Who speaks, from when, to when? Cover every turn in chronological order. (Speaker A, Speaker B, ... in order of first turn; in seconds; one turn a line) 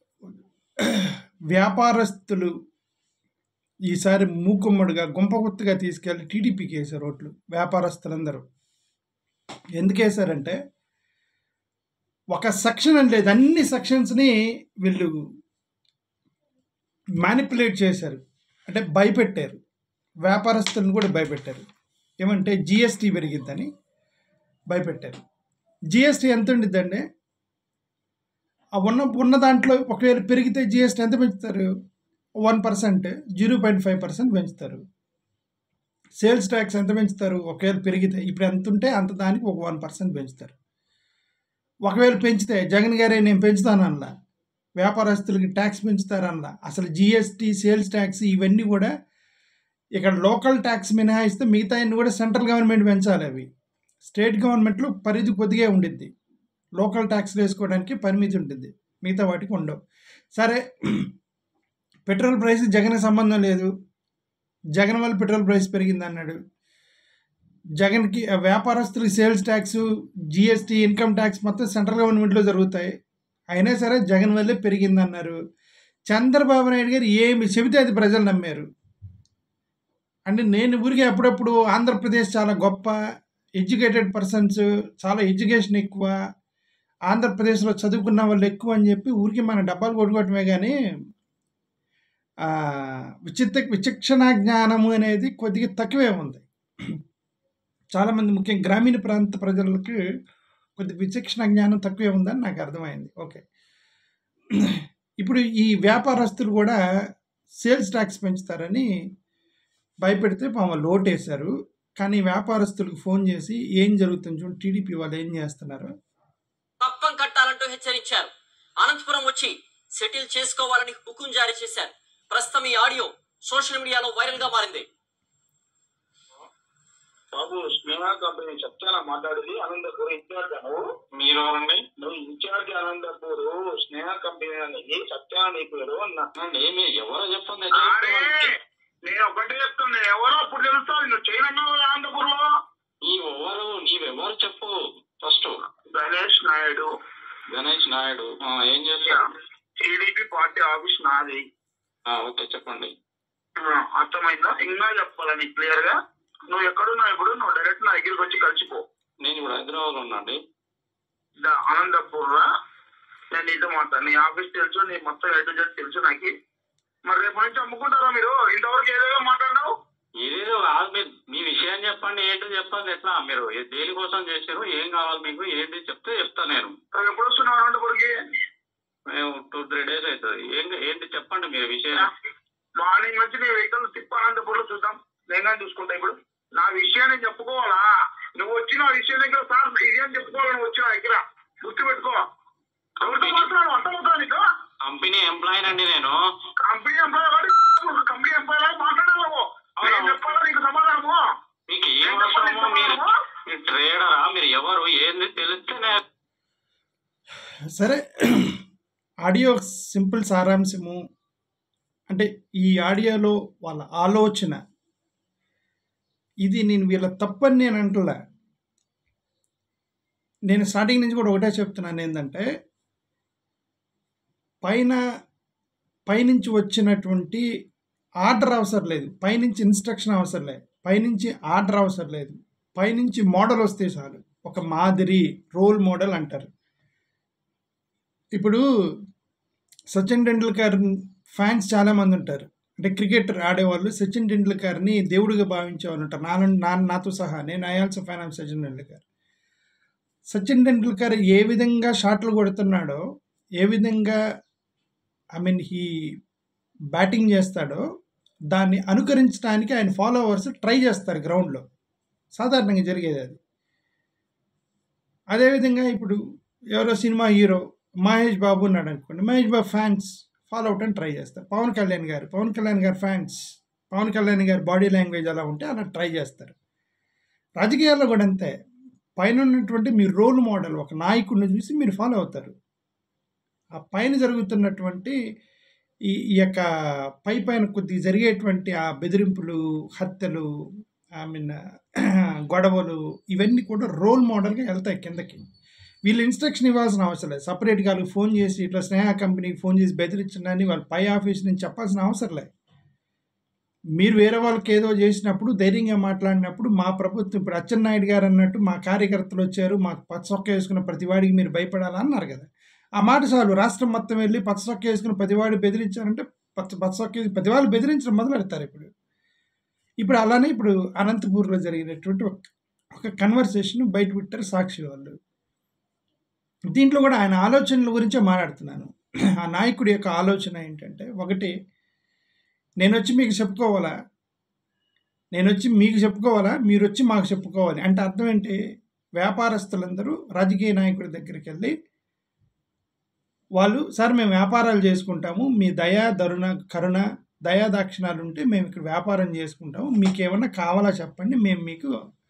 Speaker A: 0.8-2.5
Speaker A: 3.9-8.4
Speaker A: 9.8-10.6
Speaker A: 12.3-15.2
Speaker A: 17.2-19.6
Speaker A: 20.2-21.6
Speaker A: 22.2-23.7
Speaker A: 24.7-25.2
Speaker A: 25.9-27.0
Speaker A: 28.8-31.7
Speaker A: 32.4-34.8
Speaker A: 36.2-40.5
Speaker A: 41.9-44.1
Speaker A: 44.8-48.9
Speaker A: 50.0-53.5
Speaker A: 54.0-56.1
Speaker A: 56.8-59.8
Speaker A: 60.4-61.1
Speaker A: 62.1-63.7
Speaker A: 64.8-66.4
Speaker A: 67.8-69.8
Speaker A: 70.3-72.9
Speaker A: 73.5-75.3
Speaker A: 76.1-78.7
Speaker A: 80.3-83.0
Speaker A: 83.6-86.2
Speaker A: 87.1-90.8
Speaker A: 92.5-96.4
Speaker A: 98.0-100.0
Speaker A: 100.8-103.4
Speaker A: 104.7-106.8
Speaker A: 107.6-108.9
Speaker A: 110.0-115.9
Speaker B: 116.8-124.9
Speaker C: 127.3-130.8
Speaker D: 131.1-131.8
Speaker C: 132.0-136.3
Speaker D: 136.4-138.5
Speaker C: 137.8-138.5
Speaker C: 139.1-142.5
Speaker D: 143.1-145.5
Speaker C: 145.9-146.9
Speaker D: 147.5-149.2
Speaker C: 149.8-151.4
Speaker D: 152.1-152.9
Speaker C: 153.6-155.9
Speaker C: 156.5-158.8
Speaker D: 159.2-160.4
Speaker C: 161.4-162.4
Speaker C: 163.3-166.3
Speaker C: 167.1-169.7
Speaker D: 170.2-176.7
Speaker C: 176.9-178.1
Speaker D: 179.1-182.1
Speaker C: 182.8-192.2
Speaker D: 193.0-193.5
Speaker C: 193.0-194.4
Speaker D: 194.8-196.2
Speaker C: 196.7-201.2
Speaker D: 199.8-200.2
Speaker D: 201.7-206.0
Speaker C: 202.0-203.1
Speaker A: 207.8-208.6
Speaker A: 209.2-211.0
Speaker A: 212.1-214.6
Speaker A: 216.4-218.1
Speaker A: 220.5-222.4
Speaker A: 224.6-225.0
Speaker A: 226.1-227.4
Speaker A: 228.2-236.5
Speaker A: 238.3-238.6
Speaker A: 239.9-249.0
Speaker A: 250.3-253.0
Speaker A: 253.6-254.2
Speaker A: 255.4-255.9
Speaker A: 256.9-257.8
Speaker A: 258.5-261.6
Speaker A: 262.4-263.4
Speaker A: 265.3-266.2
Speaker A: 266.7-273.4
Speaker A: 273.9-276.6
Speaker A: 277.6-278.5
Speaker A: 279.2-282.5
Speaker A: 283.8-285.2
Speaker A: 287.2-290.5
Speaker A: 291.2-291.5
Speaker A: 292.5-295.4
Speaker A: 296.1-302.5
Speaker A: 304.0-312.4
Speaker A: 313.0-318.9
Speaker A: 320.0-325.1
Speaker A: 326.7-328.9
Speaker A: 329.5-331.5
Speaker A: 332.8-333.9
Speaker A: 335.3-338.6
Speaker A: 339.2-341.7
Speaker A: 343.6-351.9